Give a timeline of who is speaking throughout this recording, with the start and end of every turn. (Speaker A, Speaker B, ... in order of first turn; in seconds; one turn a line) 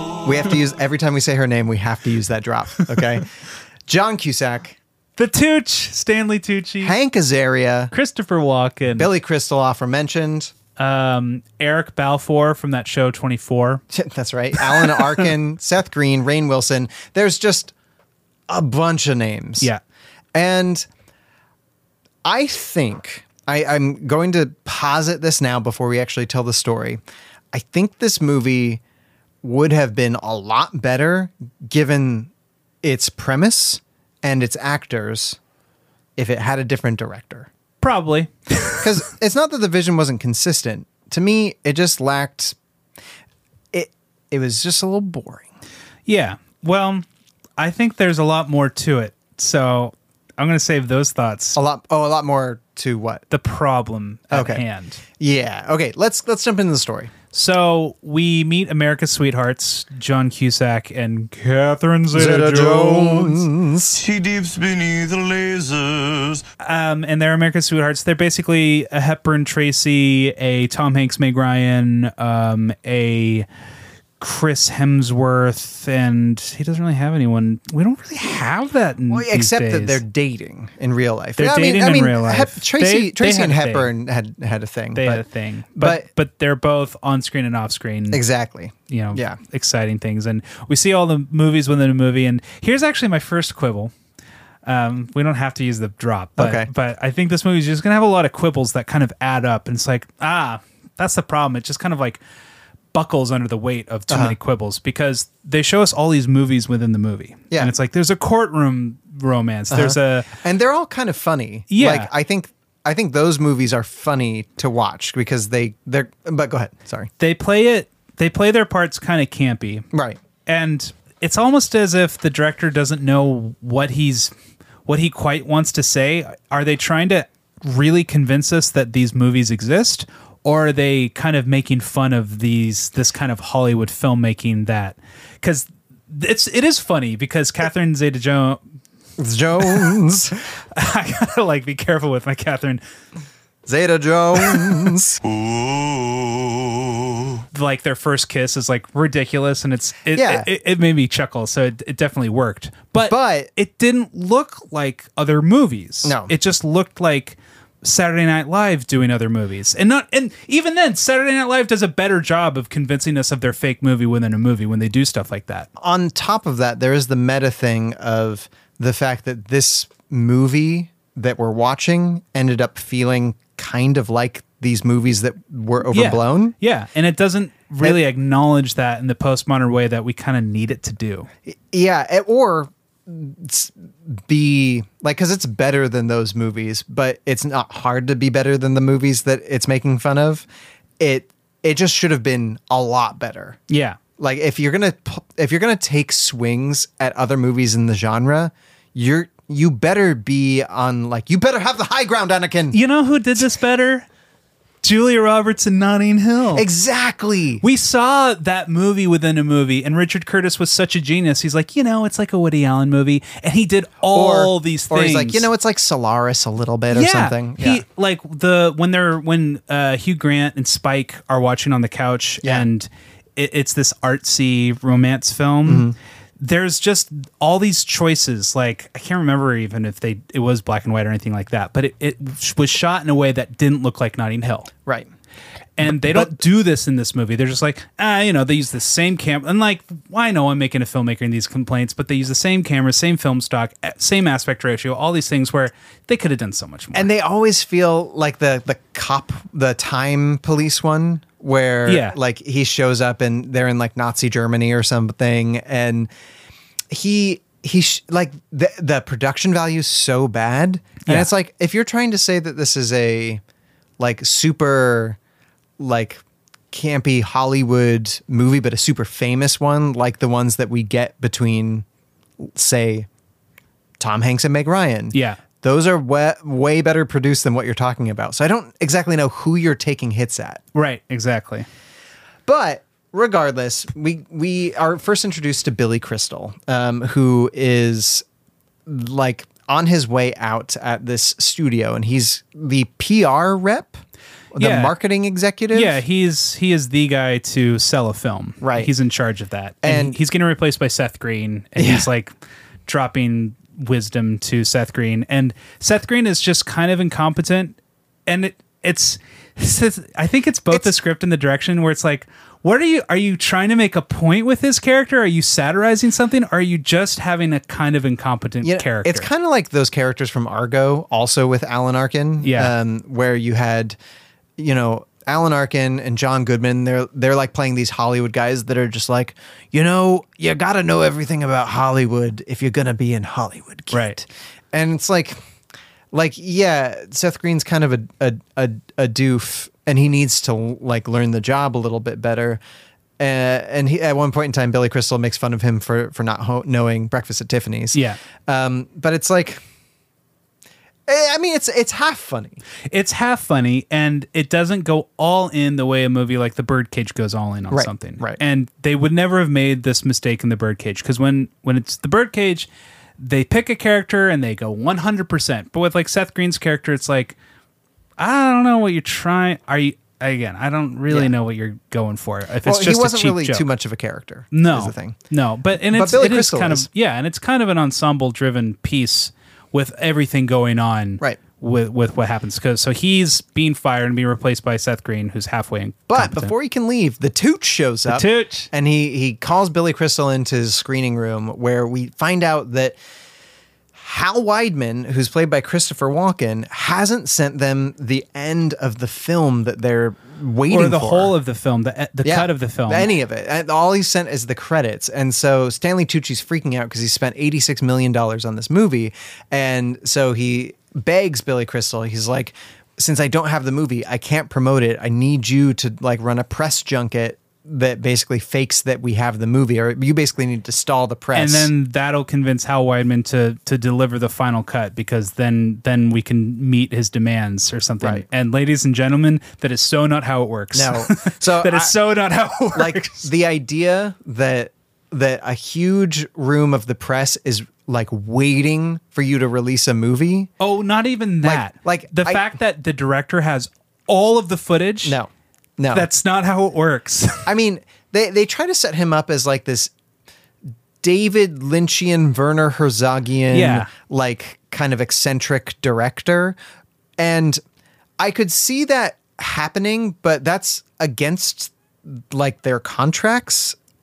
Speaker A: 0.2-3.3
Speaker A: 3.9-4.8
Speaker B: 5.2-7.0
Speaker A: 6.8-7.9
Speaker B: 7.9-9.1
Speaker A: 9.0-10.5
Speaker B: 10.8-13.8
Speaker A: 13.9-17.7
Speaker B: 14.6-15.0
Speaker A: 18.5-19.7
Speaker A: 20.3-20.9
Speaker A: 22.2-27.0
Speaker A: 27.5-28.8
Speaker A: 29.4-32.3
Speaker A: 32.8-35.4
Speaker A: 36.2-37.5
Speaker B: 37.8-38.8
Speaker A: 38.8-42.6
Speaker A: 43.7-45.5
Speaker B: 46.1-47.0
Speaker B: 47.6-51.6
Speaker A: 51.6-53.2
Speaker B: 53.3-55.0
Speaker A: 54.3-54.6
Speaker A: 55.2-57.1
Speaker B: 57.3-63.5
Speaker A: 62.1-64.0
Speaker C: 63.9-66.4
Speaker B: 66.6-73.5
Speaker B: 74.2-80.0
Speaker A: 79.1-85.2
Speaker B: 81.4-83.9
Speaker B: 85.0-88.2
Speaker A: 85.8-86.1
Speaker A: 88.1-89.4
Speaker B: 88.9-93.9
Speaker B: 94.6-102.2
Speaker A: 96.4-96.7
Speaker B: 102.9-110.3
Speaker A: 104.1-104.4
Speaker A: 109.7-117.1
Speaker B: 111.7-112.1
Speaker B: 117.2-119.9
Speaker A: 119.9-120.2
Speaker B: 120.5-124.3
Speaker B: 124.9-138.6
Speaker A: 139.2-140.4
Speaker B: 140.7-142.8
Speaker A: 143.7-145.2
Speaker C: 145.2-147.4
Speaker B: 147.5-165.7
Speaker A: 150.1-150.5
Speaker A: 153.0-153.5
Speaker A: 156.0-156.3
Speaker A: 165.8-176.5
Speaker B: 175.9-181.3
Speaker A: 181.5-190.5
Speaker A: 191.0-193.6
Speaker B: 193.7-194.0
Speaker A: 194.2-202.8
Speaker B: 202.7-204.1
Speaker B: 204.8-206.6
Speaker A: 206.5-207.6
Speaker B: 207.6-215.5
Speaker A: 214.1-217.8
Speaker B: 216.9-234.7
Speaker A: 225.7-226.0
Speaker B: 235.8-247.1
Speaker A: 235.8-236.4
Speaker A: 246.9-256.1
Speaker B: 251.9-252.2
Speaker A: 256.9-263.4
Speaker B: 261.0-261.3
Speaker A: 264.0-265.2
Speaker A: 265.8-271.9
Speaker A: 272.4-273.1
Speaker A: 274.0-280.6
Speaker B: 275.1-275.4
Speaker B: 280.7-281.7
Speaker A: 282.5-288.2
Speaker A: 288.9-296.0
Speaker B: 294.6-294.9
Speaker B: 295.7-302.3
Speaker A: 298.6-298.9
Speaker A: 299.8-300.2
Speaker A: 301.8-302.1
Speaker B: 302.9-319.3
Speaker A: 318.6-324.0
Speaker B: 322.4-322.7
Speaker A: 324.6-335.4
Speaker B: 333.9-334.2
Speaker A: 336.1-342.6
Speaker A: 343.2-349.6
Speaker B: 347.9-348.2
Speaker A: 351.1-352.6
Speaker B: 352.9-362.7
Speaker A: 357.7-358.4
Speaker B: 363.2-367.4
Speaker B: 368.2-373.7
Speaker A: 372.6-375.2
Speaker B: 374.5-386.5
Speaker A: 375.9-376.9
Speaker A: 386.1-393.0
Speaker B: 388.1-388.7
Speaker A: 393.9-401.3
Speaker B: 400.7-403.1
Speaker A: 402.2-421.7
Speaker B: 421.3-433.3
Speaker A: 430.7-432.0
Speaker A: 432.7-440.5
Speaker B: 440.6-445.2
Speaker A: 441.4-442.5
Speaker A: 445.0-446.1
Speaker B: 445.9-447.5
Speaker A: 447.5-449.9
Speaker A: 451.0-456.6
Speaker B: 453.5-453.9
Speaker A: 457.2-457.6
Speaker A: 458.2-463.8